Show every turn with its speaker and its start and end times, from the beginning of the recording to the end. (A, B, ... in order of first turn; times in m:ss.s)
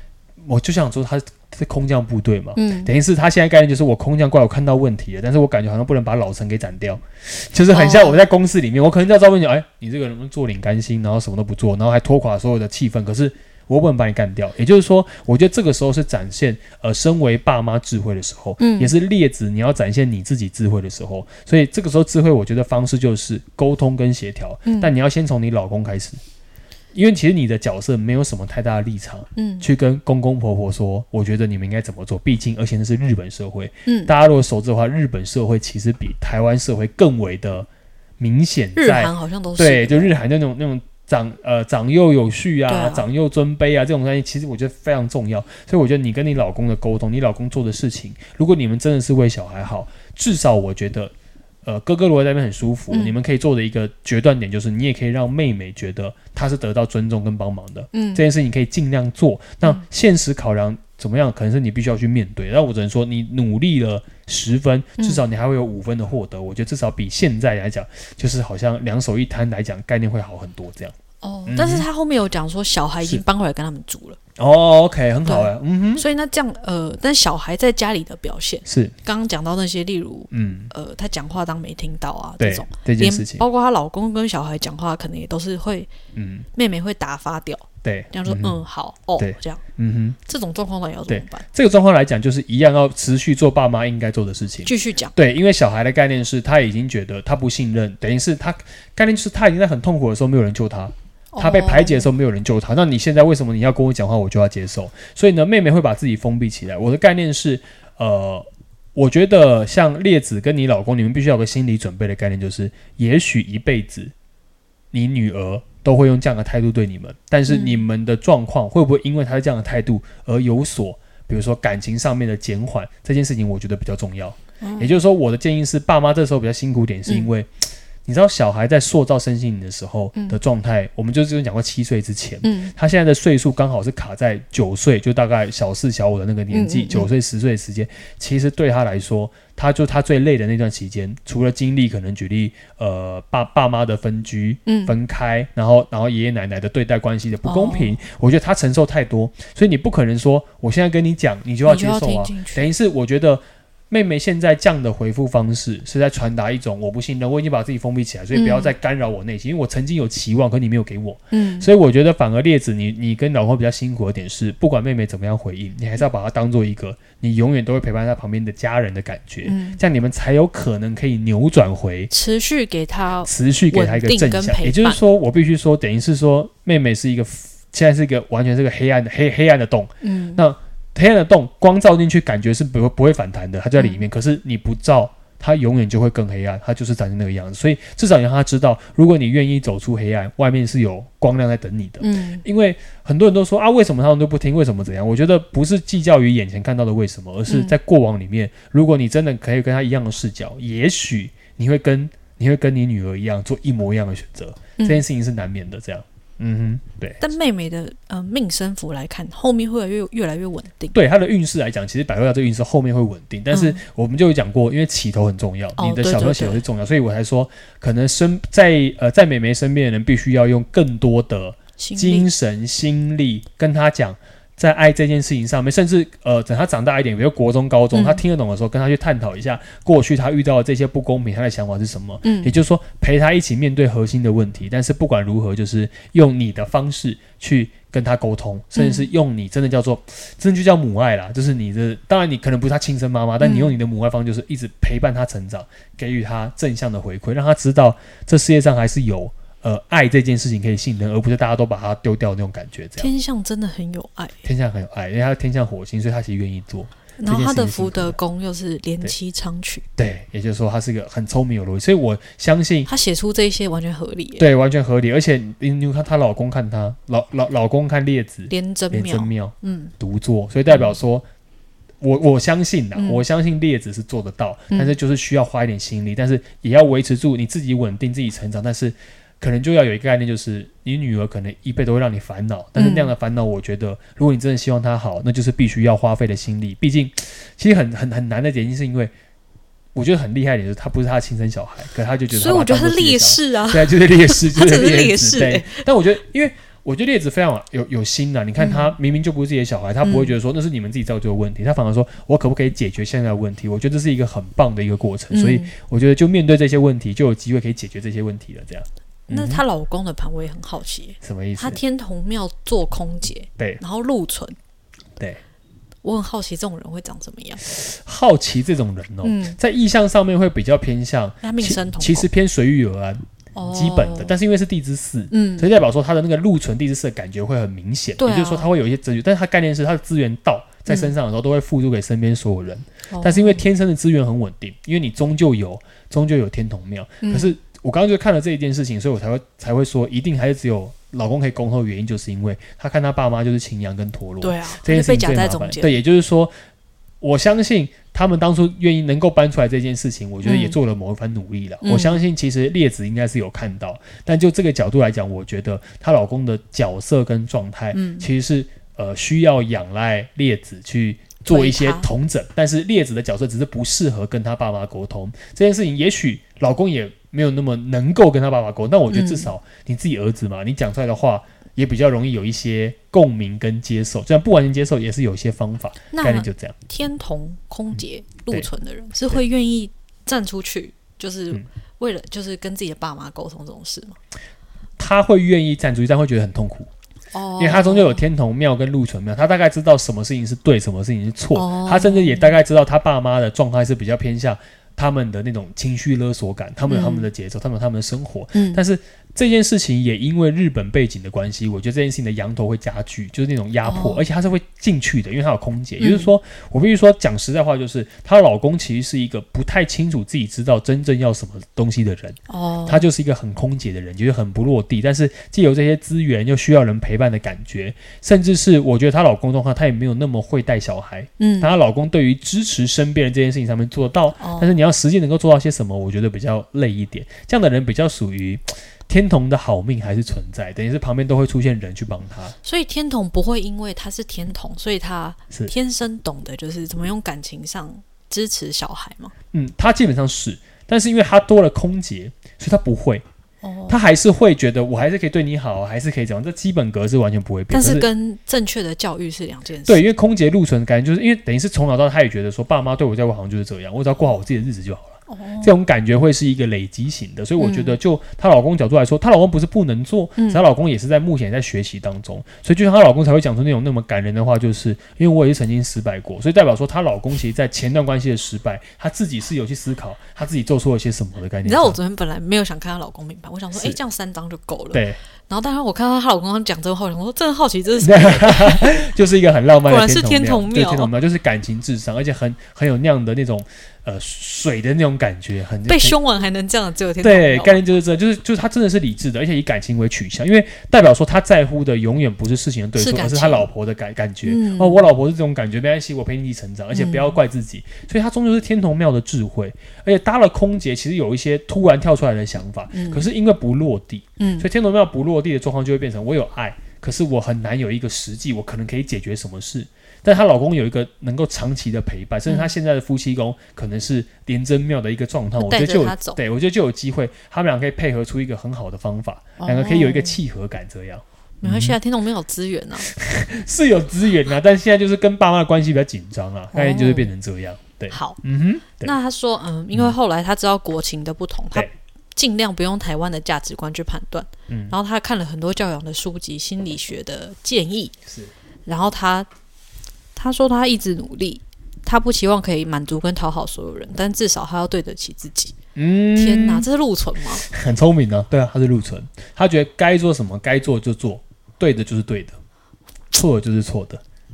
0:00.4-0:26.2 A
0:02.6-0:02.9 B
0:07.7-0:08.2 B
0:18.6-0:18.9 B
0:24.6-0:24.9 B
0:26.9-0:37.7 A
0:29.4-0:29.7 B
0:33.9-0:34.1 B
0:38.2-0:51.1 A
0:38.8-0:40.1 B
0:42.7-0:43.1 B
0:51.6-1:11.0 A
0:52.9-0:53.2 B
0:57.9-0:58.2 B
1:11.2-1:14.2 B
1:11.5-1:11.9 A
1:14.4-1:16.0 A
1:15.3-1:25.9 B
1:18.7-1:19.0 A
1:20.3-1:20.7 A
1:22.4-1:23.4 A
1:26.2-1:26.5 A
1:26.5-1:29.6 B
1:27.8-1:28.6 A
1:29.2-1:30.2 A
1:30.3-1:31.4 B
1:31.1-1:54.1 A
1:34.6-1:35.1 B
1:41.3-1:42.1 B
1:54.9-2:52.1 A
1:57.5-1:57.8 B
2:04.6-2:05.0 B
2:12.4-2:12.7 B
2:16.5-2:17.1 B
2:24.7-2:24.9 B
2:27.4-2:28.0 B
2:31.6-2:32.7 B
2:38.3-2:38.7 B
2:41.3-2:41.7 B
2:49.4-2:49.8 B
2:52.1-2:55.0 B
2:53.2-3:27.2 A
3:00.0-3:00.4 B
3:03.8-3:04.0 B
3:12.0-3:12.4 B
3:17.5-3:17.8 B
3:24.8-3:25.0 B
3:27.2-3:31.0 B
3:30.9-4:13.1 A
3:33.5-3:33.8 B
3:35.8-3:36.6 B
3:41.8-3:42.3 B
3:47.9-3:48.2 B
3:52.2-3:52.5 B
3:58.8-3:59.1 B
4:03.4-4:03.7 B
4:13.0-4:14.3 B
4:14.4-4:18.2 A
4:17.2-4:19.8 B
4:20.0-4:22.9 A
4:22.9-4:24.4 B
4:24.4-4:31.3 A
4:28.5-4:29.9 B
4:30.7-4:31.0 B
4:32.0-4:49.1 A
4:33.0-4:33.2 B
4:42.8-4:43.1 B
4:50.0-5:09.6 A
4:52.3-4:55.9 B
4:58.6-4:59.0 B
5:00.0-5:00.3 B
5:05.3-5:05.7 B
5:09.3-5:14.6 B
5:11.2-5:11.8 A
5:16.0-5:17.6 B
5:17.6-5:46.5 A
5:19.2-5:19.6 B
5:21.4-5:22.3 B
5:23.6-5:24.3 B
5:25.3-5:25.7 B
5:28.2-5:28.7 B
5:30.9-5:31.1 B
5:33.1-5:33.6 B
5:37.2-5:37.6 B
5:44.4-5:45.9 B
5:47.2-6:16.8 A
5:50.4-5:50.8 B
5:51.8-5:52.2 B
5:57.9-5:58.3 B
6:01.5-6:02.1 B
6:09.1-6:09.5 B
6:16.1-6:24.2 B
6:25.0-6:26.9 A
6:27.3-6:28.2 B
6:27.6-7:12.6 A
6:31.6-6:32.6 B
6:36.9-6:37.3 B
6:38.5-6:38.8 B
6:43.8-6:44.2 B
6:46.0-6:46.3 B
6:52.5-6:53.1 B
7:01.4-7:01.8 B
7:04.4-7:04.8 B
7:12.6-7:19.3 B
7:19.5-7:23.2 A
7:23.6-7:24.0 B
7:23.9-7:28.1 A
7:27.7-7:30.0 B
7:29.9-7:52.0 A
7:35.3-7:35.7 B
7:37.6-7:38.0 B
7:51.6-7:59.0 B
7:54.9-7:55.2 A
7:58.0-8:06.2 A
7:59.9-8:01.1 B
8:05.9-8:07.8 B
8:07.2-8:42.0 A
8:13.0-8:13.7 B
8:14.4-8:15.0 B
8:16.9-8:17.4 B
8:22.9-8:23.2 B
8:24.4-8:24.7 B
8:35.6-8:36.4 B
8:39.6-8:40.4 B
8:41.6-8:43.1 B
8:43.0-8:49.1 A
8:46.7-8:47.3 B
8:48.1-8:48.4 B
8:49.0-8:58.2 B
8:54.7-8:55.0 A
8:58.3-8:58.5 A
8:58.9-8:59.5 B
9:00.4-9:05.7 B
9:06.0-9:06.9 A
9:06.4-9:07.6 B
9:07.6-9:12.6 A
9:13.3-9:14.2 A